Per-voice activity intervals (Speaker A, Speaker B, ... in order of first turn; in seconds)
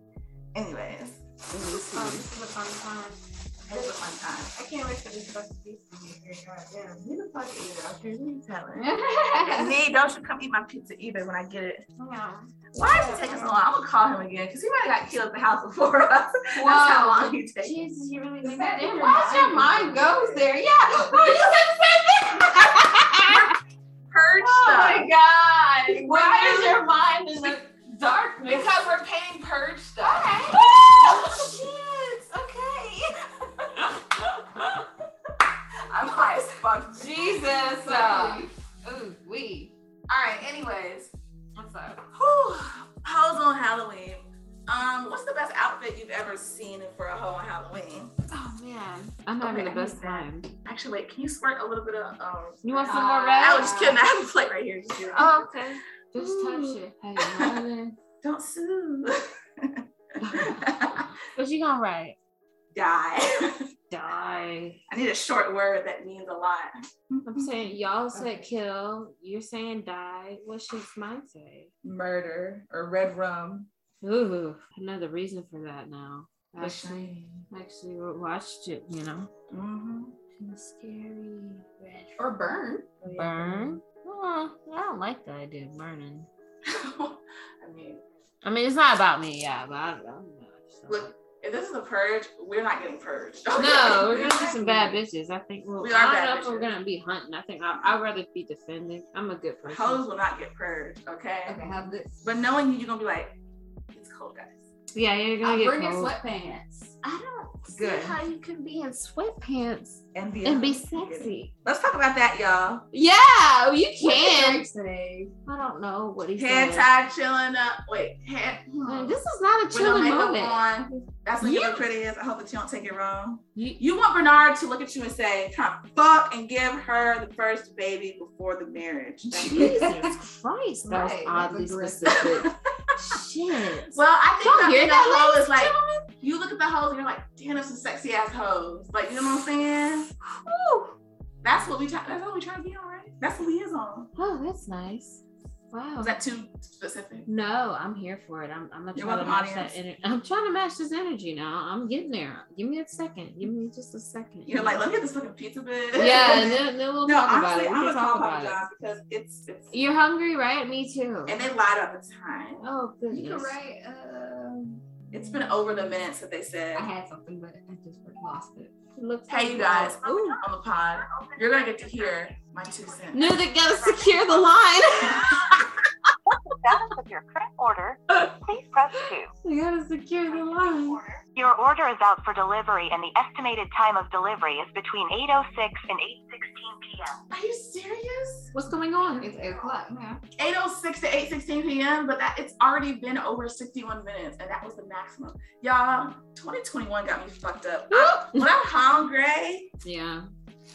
Speaker A: 0.5-2.2, 3.7-11.8, 12.7-17.8, 21.1-21.7, 23.0-23.6, 24.1-25.1, 25.9-26.8, 28.4-31.6, 33.5-33.9, 35.8-37.6, 40.1-41.1, 42.1-48.1, 49.4-55.3, 56.1-61.1, 62.7-63.7, 64.9-67.7, 71.8-73.7, 76.6-77.4, 79.5-80.1, 83.0-83.7, 86.6-88.0, 90.9-95.0, 95.8-96.7, 99.7-101.6, 102.2-103.3, 103.9-104.6, 110.1-112.8, 116.4-118.7, 119.7-129.8, 132.1-132.6, 133.8-140.1, 141.4-144.1, 146.0-147.3, 148.9-149.7, 154.4-159.8, 161.3-162.6, 165.1-166.9, 169.3-173.3, 187.3-188.5, 190.4-199.7
Speaker B: 1.6-3.9, 4.6-6.1, 12.0-13.6, 16.6-23.5, 24.4-28.9, 30.0-33.1, 36.9-39.7, 41.5-42.0, 48.3-50.5, 52.6-53.9, 55.1-57.7, 60.2-60.7, 61.3-62.2, 63.9-64.8, 67.2-71.7, 74.0-79.3, 80.4-82.2, 83.0-86.3, 88.4-91.1, 93.6-100.0, 104.9-106.1, 107.0-111.5, 112.9-114.6, 115.5-116.9, 118.8-120.6, 121.4-121.8, 129.4-136.0, 140.3-140.9, 144.2-146.2, 147.3-154.8, 155.9-158.6, 159.7-161.4, 162.6-163.5, 168.9-170.4, 173.1-175.4, 179.4-181.0, 188.5-189.5, 197.9-198.6, 199.8-200.3
Speaker C: 8.8-9.7, 18.4-20.6, 37.8-38.5, 52.9-54.0, 82.2-83.1, 101.5-102.2, 105.4-107.0, 107.7-108.2, 114.0-115.3, 118.7-119.2, 129.3-130.1, 130.8-132.5, 163.1-165.8, 166.7-168.7, 189.2-190.2
Speaker D: 173.8-174.4, 176.6-179.3, 180.9-187.2